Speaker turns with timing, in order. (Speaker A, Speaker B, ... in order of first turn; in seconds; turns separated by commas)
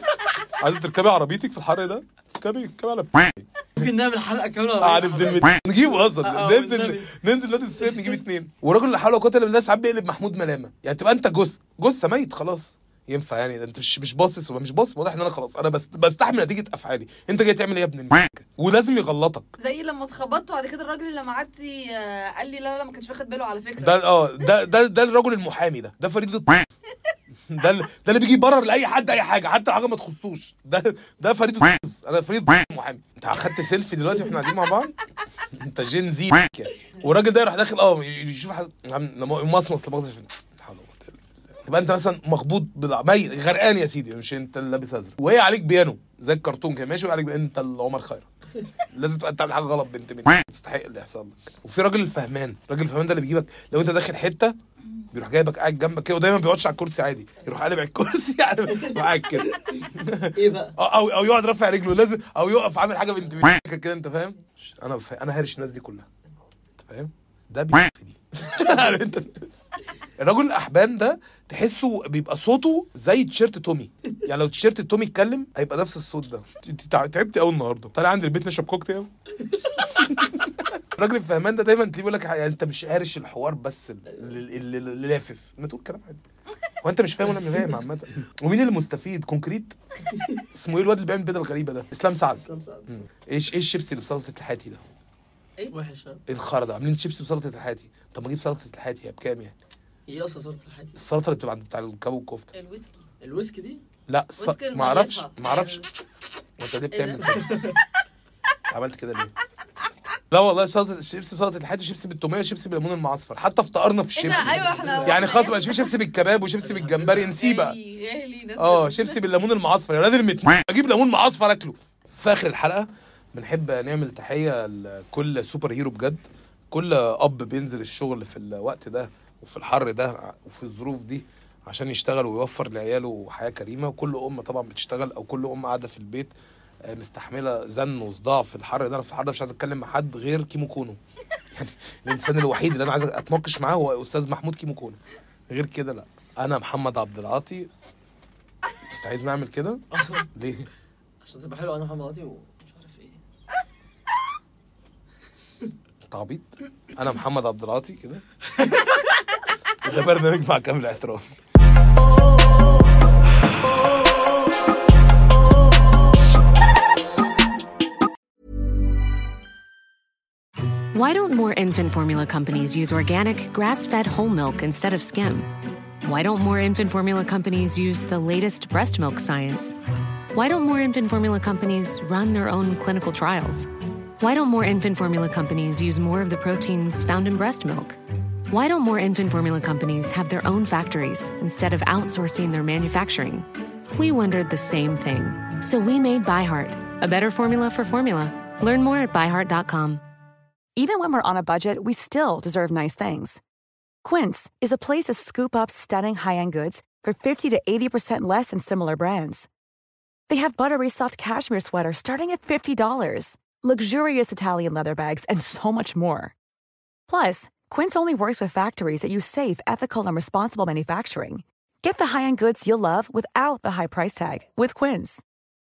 Speaker A: 0.6-3.5, Speaker B: 3.8-7.1, Speaker A: 4.8-19.5, Speaker B: 7.8-8.1, Speaker C: 19.6-23.9, Speaker A: 23.8-26.7, Speaker A: 27.5-34.9, Speaker A: 35.6-48.3, Speaker A: 48.9-54.5, Speaker A: 55.1-66.1, Speaker B: 58.7-59.5, Speaker B: 60.4-60.7, Speaker A: 66.8-69.6, Speaker A: 70.2-79.1, Speaker A: 80.0-80.5, Speaker A: 81.0-86.2, Speaker B: 84.0-84.4, Speaker A: 86.8-89.8, Speaker A: 90.5-94.8, Speaker B: 92.3-93.1, Speaker B: 95.7-96.2, Speaker A: 96.3-99.5, Speaker B: 100.1-101.1, Speaker A: 101.0-102.5, Speaker C: 102.5-103.0, Speaker B: 103.2-103.8, Speaker A: 104.1-105.8, Speaker C: 104.4-105.8, Speaker A: 106.6-107.5, Speaker C: 106.9-107.5, Speaker B: 107.5-107.8, Speaker A: 108.7-109.3, Speaker A: 110.3-117.8, Speaker C: 114.1-115.9, Speaker B: 114.8-115.2, Speaker B: 116.6-117.4, Speaker C: 117.4-119.2, Speaker A: 118.5-136.3, Speaker A: 136.9-141.0, Speaker A: 141.6-145.0, Speaker A: 145.5-147.7, Speaker A: 149.0-149.8, Speaker B: 149.9-150.2, Speaker A: 150.3-150.7, Speaker B: 151.2-153.2, Speaker A: 156.1-158.2, Speaker A: 159.8-161.2, Speaker D: 170.9-179.8, Speaker D: 180.3-200.0, Speaker E: 200.8-203.4, Speaker E: 204.0-209.5, Speaker E: 210.3-216.3, Speaker E: 217.1-225.2